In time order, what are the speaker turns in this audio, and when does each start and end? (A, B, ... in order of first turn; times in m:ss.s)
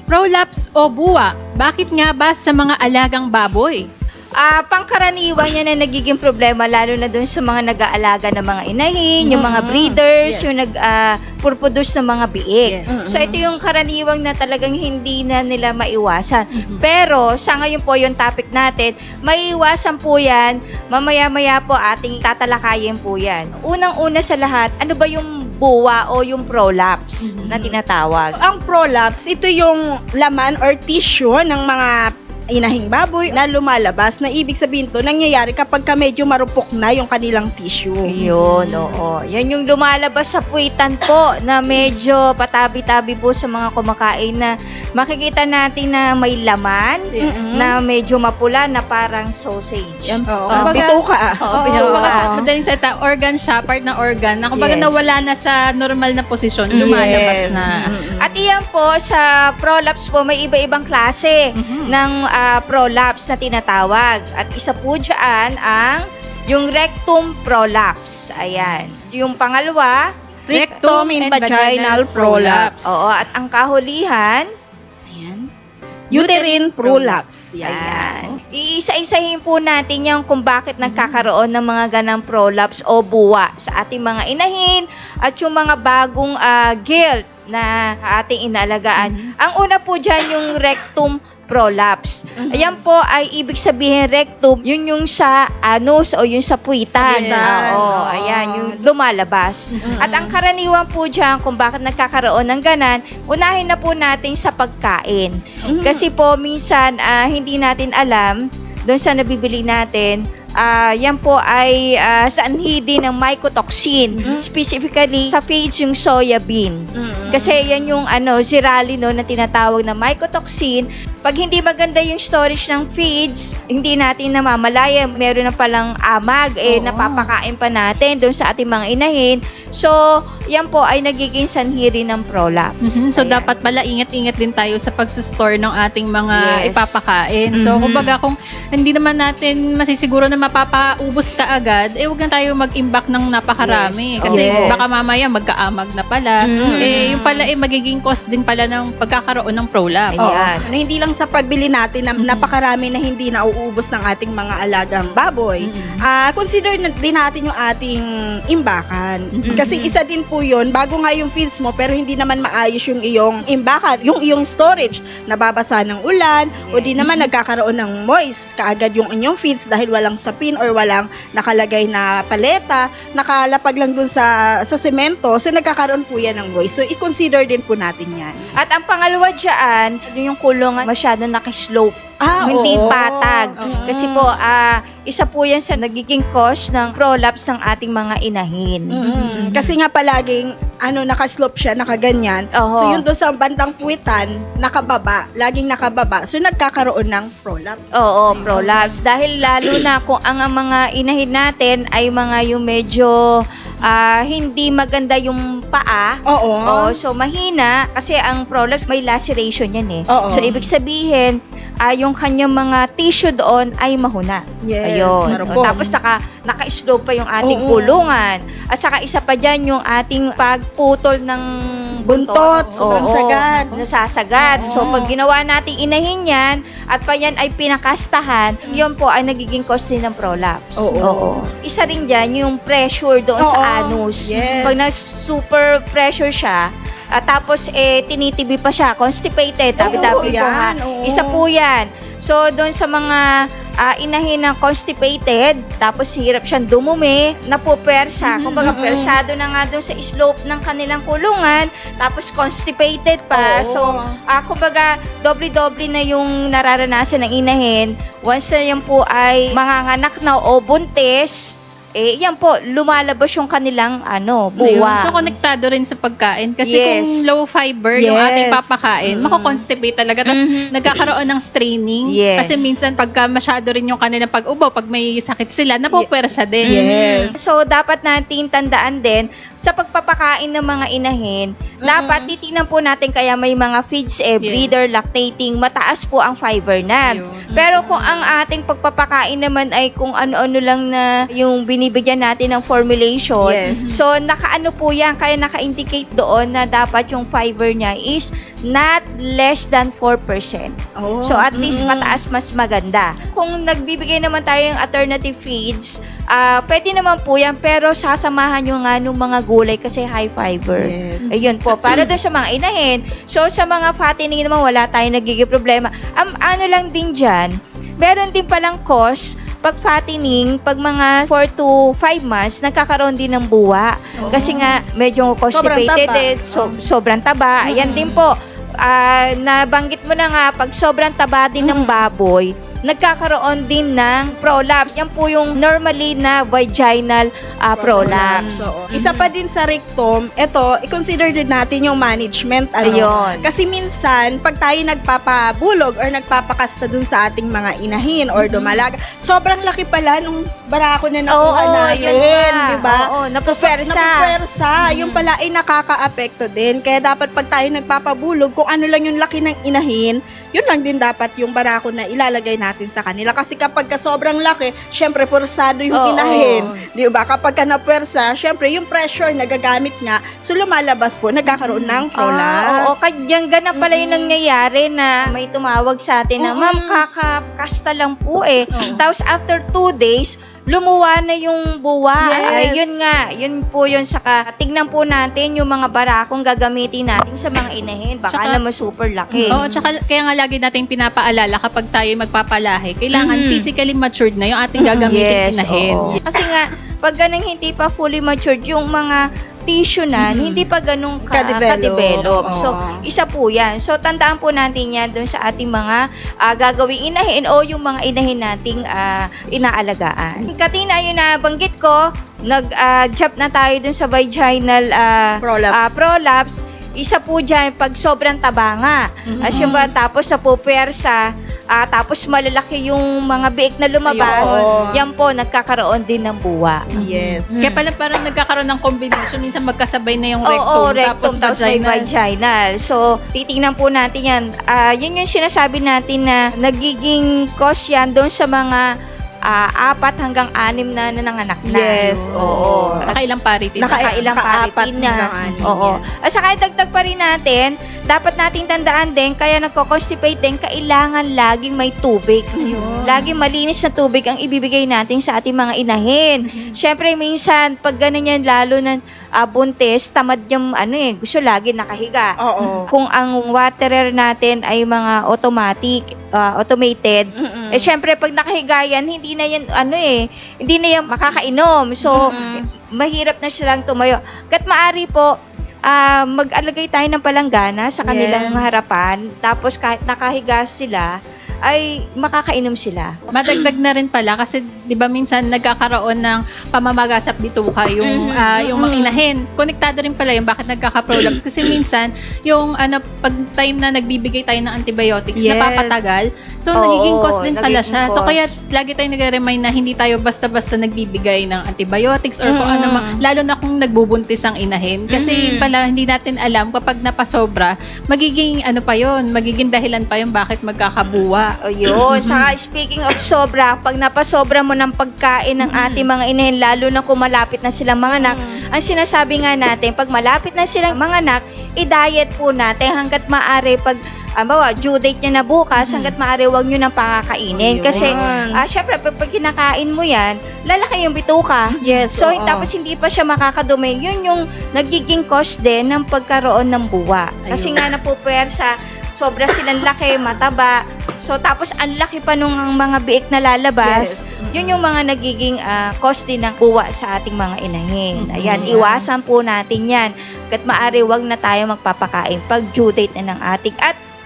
0:00.1-0:03.8 A
0:04.4-0:28.4 B
0:09.2-0:10.6 C
0:12.9-0:13.4 C
0:16.5-0:16.8 A
0:27.2-0:27.6 A
0:28.4-0:38.1 C
0:38.1-0:47.0 B
0:38.1-0:38.9 A
0:47.2-0:47.8 C
0:47.6-0:52.2 B
0:50.0-0:52.4 C
0:50.3-0:50.8 A
0:51.4-0:57.9 A
0:54.5-0:55.1 B
0:56.7-1:10.0 B
0:56.7-0:58.3 C
1:01.6-1:01.9 A
1:08.4-1:08.9 C
1:10.5-1:12.8 C
1:10.5-1:13.1 A
1:12.8-1:14.4 B
1:15.1-1:15.5 C
1:16.1-1:18.4 C
1:16.2-1:16.5 B
1:16.2-1:17.2 A
1:17.6-1:48.3 B
1:20.8-1:21.3 A
1:29.0-1:29.3 A
1:32.4-1:32.8 C
1:37.0-1:37.9 A
1:37.1-1:38.8 C
1:39.7-1:40.0 A
1:39.8-1:40.4 C
1:45.7-1:46.0 C
1:48.9-1:56.8 B
1:54.1-1:54.4 A
1:57.0-1:57.9 C
1:57.3-2:10.0 B
2:10.5-2:13.5 B
2:12.8-2:30.3 A
2:16.3-2:17.0 B
2:17.5-2:18.1 B
2:23.6-2:25.0 C
2:24.2-2:24.8 B
2:26.4-2:27.2 B
2:26.6-2:27.5 C
2:30.2-2:30.7 B
2:30.2-2:58.5 C
2:32.2-2:32.5 A
2:35.6-2:36.0 A
2:39.3-2:39.6 A
2:39.5-2:40.0 B
2:46.7-2:47.2 B
2:47.0-2:47.2 A
2:58.6-3:09.0 B
3:02.2-3:04.3 C
3:03.6-3:03.9 A
3:08.9-3:18.8 C
3:09.0-3:09.8 A
3:12.6-3:13.0 B
3:18.0-3:23.1 B
3:18.3-3:18.9 A
3:23.8-3:26.1 B
3:26.3-3:27.0 C
3:26.6-3:31.3 B
3:30.1-3:30.5 C
3:30.3-3:30.7 A
3:31.8-3:41.4 B
3:34.6-3:35.9 C
3:35.2-3:35.8 A
3:37.4-3:38.0 C
3:42.0-3:43.7 C
3:42.1-3:56.6 B
3:42.7-3:43.8 A
3:44.4-3:45.0 A
3:44.6-3:45.1 C
3:50.8-3:51.3 C
3:53.4-3:54.8 C
3:54.4-3:54.7 A
3:57.2-4:03.2 B
3:59.8-4:01.4 C
3:59.8-4:00.3 A
4:03.8-4:21.4 B
4:08.2-4:08.7 A
4:08.6-4:09.2 C
4:13.3-4:14.1 C
4:22.0-4:25.3 B
4:24.6-4:36.9 A
4:26.6-4:27.2 B
4:27.9-4:29.6 C
4:30.3-4:30.7 B
4:32.1-4:32.6 B
4:36.7-4:37.3 C
4:36.7-5:00.7 B
4:41.8-4:42.3 C
4:44.4-4:44.7 A
4:47.1-4:47.5 A
4:47.5-4:48.3 C
4:53.4-4:53.9 C
4:53.6-4:53.9 A
5:01.0-5:02.2 C
5:01.2-5:17.5 B
5:10.7-5:11.3 C
5:18.0-5:39.0 B
5:24.2-5:24.7 C
5:25.5-5:26.7 C
5:27.6-5:28.2 C
5:31.6-5:32.0 C
5:37.8-6:12.9 C
5:38.0-5:39.3 A
5:42.8-5:43.5 B
5:48.4-5:48.8 B
5:51.3-5:54.2 B
5:54.8-5:55.3 B
6:05.9-6:06.6 B
6:06.2-6:06.6 A
6:11.6-6:12.0 A
6:12.2-6:29.6 B
6:13.7-6:14.3 C
6:16.4-6:17.0 C
6:18.7-6:19.0 A
6:22.2-6:22.9 C
6:28.3-6:28.6 A
6:29.3-6:29.9 C
6:29.5-6:36.2 A
6:33.1-6:33.6 B
6:34.8-6:35.1 C
6:35.0-7:01.2 B
6:36.0-6:36.4 C
6:40.2-6:40.6 C
6:41.3-6:43.0 C
6:55.4-6:56.0 C
6:59.3-6:59.8 A
6:59.4-6:59.9 C
7:01.7-7:06.9 B
7:04.1-7:04.9 A
7:04.2-7:05.0 C
7:06.9-7:12.1 A
7:07.0-7:07.7 C
7:10.5-7:18.8 B
7:19.5-7:23.2 B
7:21.7-7:23.1 C
7:22.0-7:22.5 A
7:23.0-7:24.3 A
7:23.8-7:26.0 C
7:23.9-7:42.3 B
7:25.4-7:25.8 A
7:32.6-7:33.2 C
7:32.6-7:33.3 A
7:36.4-7:36.8 A
7:42.4-7:42.9 C
7:42.6-7:42.9 A
7:42.9-7:55.3 B
7:47.3-7:47.9 C
7:52.0-7:52.6 C
7:55.9-8:01.1 B
7:58.0-7:58.6 C
8:01.6-8:03.1 B
8:03.3-8:31.5 A
8:08.0-8:08.6 B
8:08.6-8:09.2 C
8:15.4-8:16.2 C
8:16.8-8:18.5 B
8:22.4-8:23.2 C
8:25.1-8:25.7 B
8:31.7-9:14.0 B
8:31.9-8:32.5 C
8:32.1-8:32.4 A
8:35.6-8:36.0 A
8:38.1-8:38.6 C
8:45.8-8:46.2 A
8:47.5-8:48.6 C
8:47.9-8:48.2 A
8:51.8-8:52.7 C
8:57.4-8:57.8 A
9:03.8-9:04.8 C
9:08.2-9:09.1 A
9:08.4-9:08.8 C